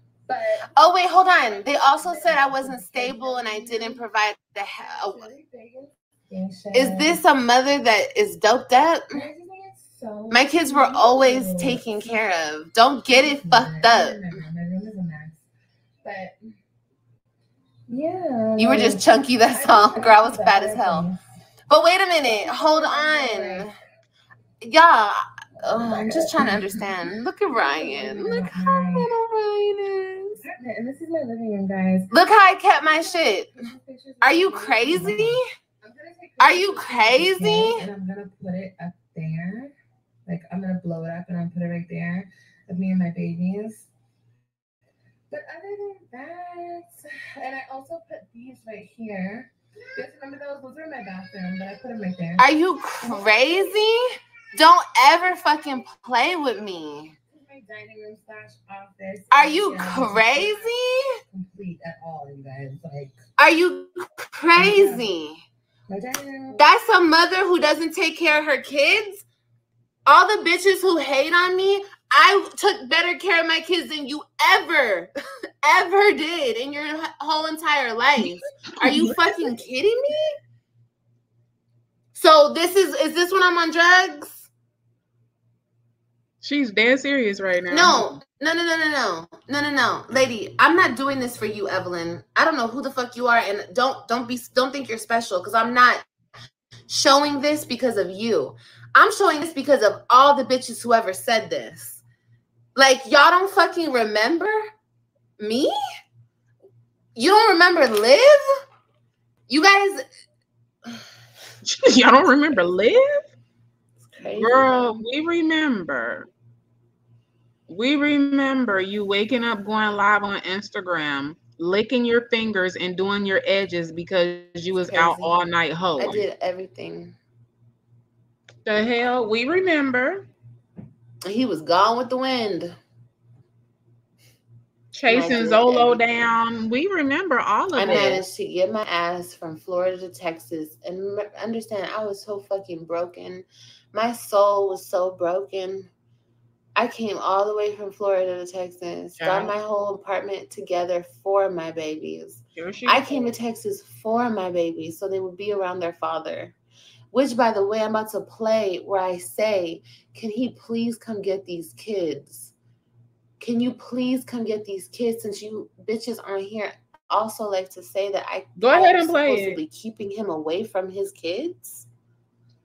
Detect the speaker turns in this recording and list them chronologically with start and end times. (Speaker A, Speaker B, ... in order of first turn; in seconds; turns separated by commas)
Speaker A: 0.3-0.7, Speaker B: 0.7-5.3, Speaker A: 1.4-4.1, Speaker A: 4.8-7.2, Speaker B: 6.7-9.2, Speaker A: 9.1-12.2, Speaker B: 10.3-14.4, Speaker A: 13.1-15.4, Speaker A: 16.0-16.4, Speaker A: 17.9-21.2, Speaker B: 18.6-21.1, Speaker B: 21.7-23.7, Speaker A: 22.2-23.7, Speaker B: 24.6-30.4, Speaker A: 25.8-26.9, Speaker A: 27.5-29.1, Speaker A: 30.4-32.1, Speaker B: 32.1-33.6, Speaker A: 33.5-39.7, Speaker B: 34.2-35.5, Speaker B: 36.4-37.9, Speaker A: 40.2-43.9, Speaker A: 45.3-52.4, Speaker B: 52.4-57.1, Speaker A: 53.0-53.5, Speaker A: 57.3-60.7, Speaker B: 59.3-61.2, Speaker A: 61.3-63.2, Speaker B: 63.4-65.4, Speaker A: 64.5-65.1, Speaker A: 65.9-66.6, Speaker B: 66.5-69.2, Speaker B: 70.0-75.1, Speaker B: 75.6-80.3, Speaker C: 78.2-79.4, Speaker B: 82.1-84.5, Speaker C: 86.4-88.2, Speaker B: 87.7-96.0, Speaker B: 96.9-102.0, Speaker B: 102.8-104.6, Speaker B: 105.4-105.7, Speaker B: 107.2-108.5, Speaker B: 109.5-110.0, Speaker C: 111.6-113.2, Speaker B: 114.0-115.0, Speaker C: 114.2-116.3, Speaker C: 117.7-126.2, Speaker B: 124.8-125.3, Speaker B: 126.0-127.2, Speaker C: 128.6-130.3, Speaker B: 131.2-132.8, Speaker C: 134.9-138.2, Speaker B: 135.1-136.0, Speaker B: 137.8-145.9, Speaker B: 146.8-156.5, Speaker C: 149.2-149.5, Speaker C: 152.6-153.2, Speaker B: 157.1-162.5, Speaker B: 163.4-171.9, Speaker C: 168.6-169.6